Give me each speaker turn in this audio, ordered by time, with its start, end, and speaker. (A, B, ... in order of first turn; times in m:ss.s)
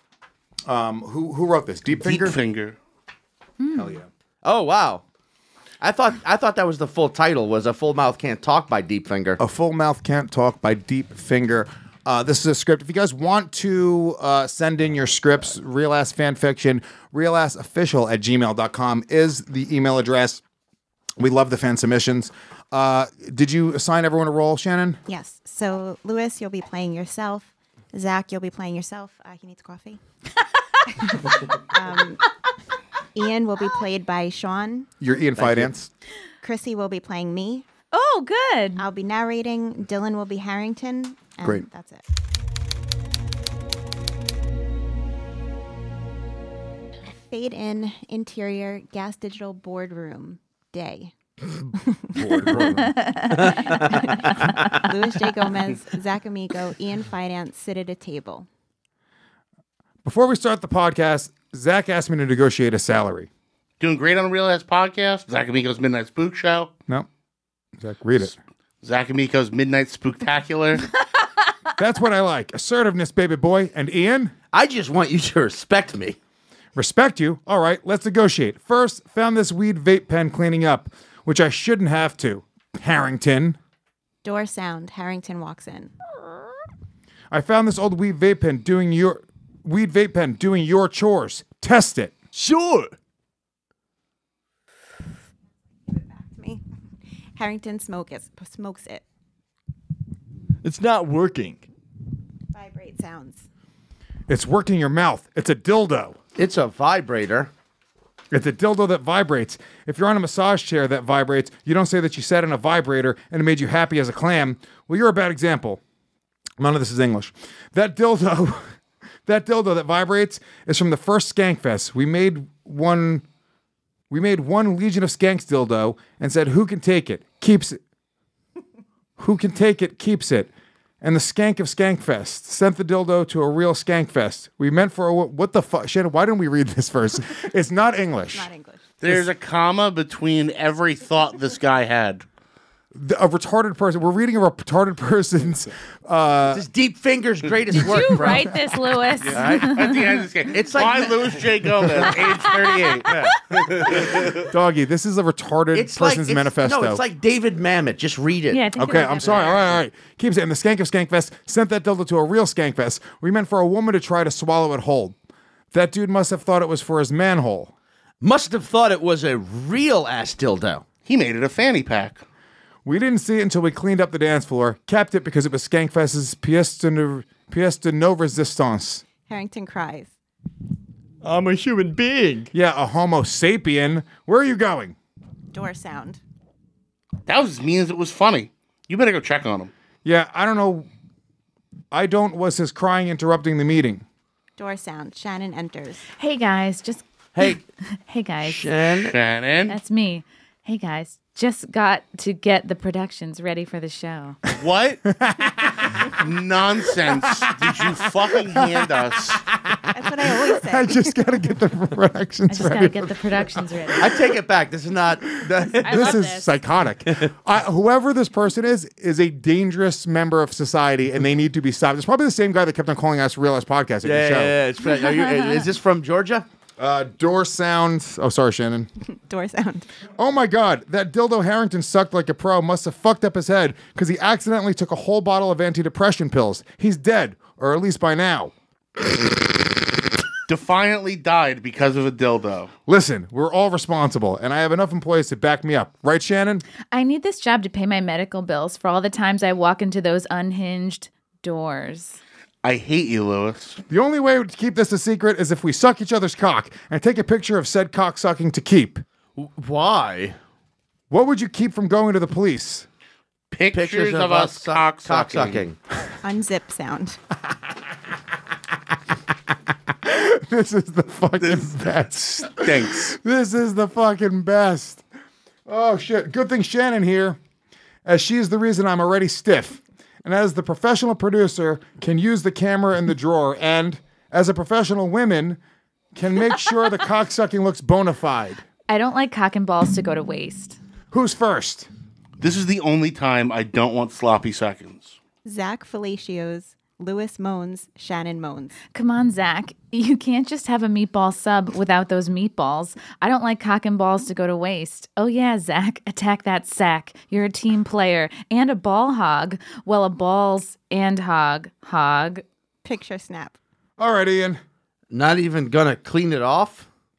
0:00.7-0:02.4 A
0:01.9-0:02.8 B
0:03.6-0:04.0 C
0:03.7-0:04.1 A
0:04.4-0:05.0 D
0:05.8-0:09.4 D
0:09.4-0:20.4 A
0:21.2-0:25.0 A
0:25.1-0:30.0 E
0:31.0-0:32.2 E
0:33.1-0:34.9 E
0:35.0-0:35.9 A
0:35.4-0:35.7 D
0:36.4-0:37.6 E
0:37.9-0:38.8 C
0:38.8-0:42.0 E
0:47.3-0:51.1 E
0:51.9-0:52.5 E
0:52.2-0:52.8 A
0:52.6-0:53.8 C
0:53.4-0:53.9 D
0:53.4-0:58.5 E
1:00.0-1:03.3 A
1:03.8-1:06.7 B
1:07.8-1:08.4 A
1:08.8-1:10.8 B
1:11.8-1:14.3 A
1:14.5-1:16.2 D
1:16.8-1:23.6 A
1:24.2-1:25.9 E
1:27.3-1:32.1 A
1:32.3-1:32.9 F
1:35.9-1:36.6 E
1:37.3-1:39.0 E
1:40.6-1:41.7 F
1:42.5-1:43.5 E
1:44.3-1:46.2 A
1:46.4-1:47.5 D
1:48.3-1:55.8 A
1:56.6-1:58.7 A
1:59.2-2:03.2 A
2:04.1-2:07.8 A
2:09.2-2:10.5 A
2:11.0-2:18.5 A
2:18.2-2:18.9 E
2:19.0-2:22.2 B
2:22.9-2:26.6 A
2:26.5-2:28.5 D
2:27.7-2:30.0 C
2:29.2-2:33.1 B
2:29.4-2:29.7 D
2:30.5-2:31.4 D
2:33.1-2:33.3 D
2:33.7-2:34.3 B
2:34.5-2:37.0 A
2:35.7-2:38.6 D
2:38.5-2:39.7 C
2:38.8-2:45.2 A
2:45.7-2:47.7 A
2:48.2-2:50.8 D
2:51.0-2:52.2 B
2:52.8-2:59.0 A
2:59.2-3:00.1 E
3:01.2-3:02.5 F
3:02.5-3:05.0 A
3:05.5-3:06.2 E
3:07.2-3:09.7 B
3:10.0-3:10.9 A
3:11.9-3:14.0 A
3:14.6-3:16.0 E
3:16.2-3:18.8 C
3:17.3-3:17.6 D
3:18.4-3:19.2 D
3:19.1-3:19.8 B
3:19.7-3:24.4 C
3:24.6-3:25.0 B
3:25.1-3:25.9 A
3:26.2-3:29.4 B
3:29.5-3:29.8 A
3:29.9-3:31.4 E
3:30.6-3:34.2 A
3:32.5-3:34.0 C
3:34.0-3:36.2 D
3:35.8-3:44.5 A
3:35.8-3:36.6 C
3:44.0-3:46.4 D
3:45.0-3:45.4 C
3:46.8-3:48.9 A
3:49.1-3:49.9 E
3:50.2-3:58.5 A
4:00.5-4:02.7 B
4:02.9-4:06.6 A
4:06.9-4:12.2 C
4:12.6-4:13.8 B
4:13.9-4:19.0 A
4:19.4-4:20.4 D
4:21.1-4:22.9 A
4:23.5-4:25.6 B
4:23.7-4:25.8 D
4:26.2-4:27.2 E
4:30.0-4:35.0 A
4:31.4-4:33.2 B
4:35.7-4:37.4 A
4:38.0-4:45.6 A
4:46.1-4:48.6 A
4:48.9-4:50.8 C
4:51.1-4:51.9 A
4:52.4-4:55.2 B
4:55.4-4:58.8 E
4:58.9-5:12.4 C
5:12.8-5:13.6 E
5:14.0-5:14.6 A
5:15.1-5:16.9 D